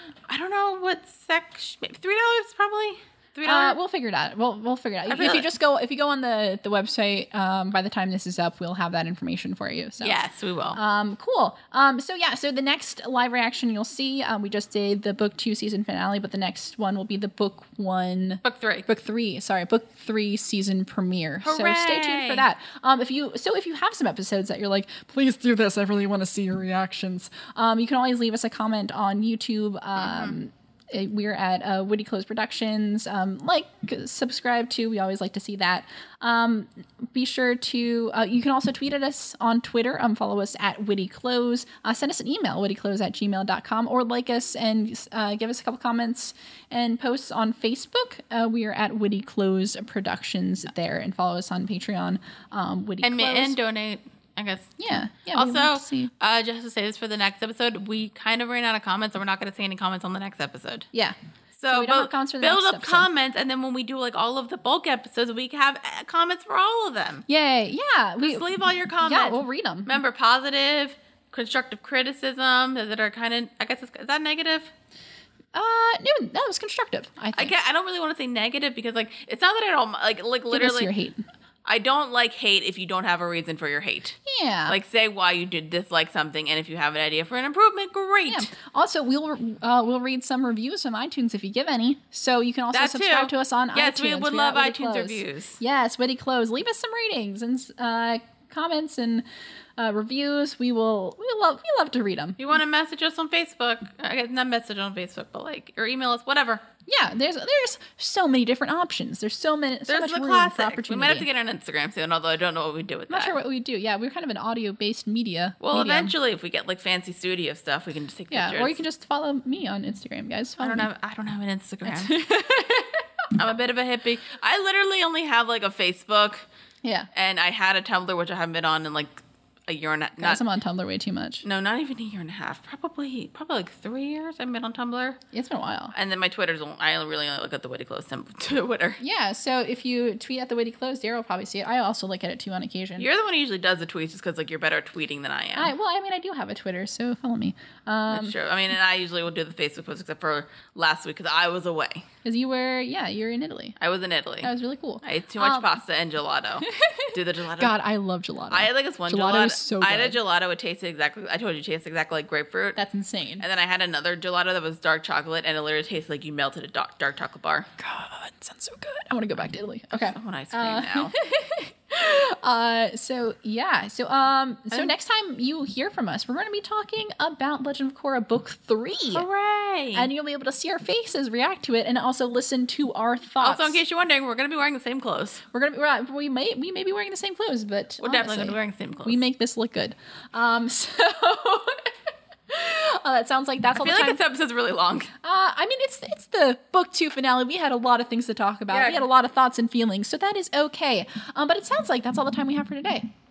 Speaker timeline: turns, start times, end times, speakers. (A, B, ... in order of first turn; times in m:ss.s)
0:00.3-0:03.8 A
0:03.4-0:53.6 B
0:05.0-0:05.5 A
0:10.0-0:10.8 A
0:18.4-0:18.8 A
0:21.4-0:22.5 A
0:30.0-0:30.3 A
0:53.0-0:54.8 A
0:54.8-0:56.1 B
0:55.3-1:00.9 A
1:01.6-1:07.2 A
1:01.7-1:03.1 B
1:07.3-1:08.5 B
1:08.2-1:14.7 A
1:09.0-1:10.0 B
1:15.5-1:17.5 B
1:17.3-1:20.9 A
1:20.5-1:21.2 B
1:21.6-1:28.5 A
1:24.2-1:24.8 B
1:28.3-1:39.2 B
1:32.7-1:35.6 A
1:39.8-1:42.4 B
1:42.4-1:46.6 A
1:46.9-1:51.3 B
1:49.9-1:53.4 A
1:53.1-1:56.1 B
1:55.6-1:58.8 A
1:58.3-2:00.9 B
2:00.6-2:02.2 A
2:01.8-2:03.0 B
2:03.3-2:06.4 A
2:07.1-2:10.4 A
2:10.2-2:11.4 B
2:11.4-2:15.2 A
2:15.3-2:15.9 B
2:15.9-2:19.0 A
2:19.0-2:23.1 B
2:23.0-2:25.7 A
2:25.5-2:28.4 B
2:28.1-2:32.0 A
2:32.2-2:33.8 B
2:33.8-2:34.5 A
2:34.4-2:35.7 B
2:35.0-2:37.7 A
2:36.7-2:40.2 B
2:38.5-2:42.8 A
2:42.8-2:43.4 B
2:43.4-2:47.7 A
2:47.8-2:59.2 B
2:49.9-2:51.1 A
2:59.1-3:00.1 A
2:59.9-3:03.8 B
3:03.4-3:05.4 A
3:05.5-3:11.9 B
3:08.0-3:09.2 A
3:12.5-3:14.2 B
3:13.7-3:15.1 A
3:15.2-3:23.1 B
3:18.7-3:19.0 A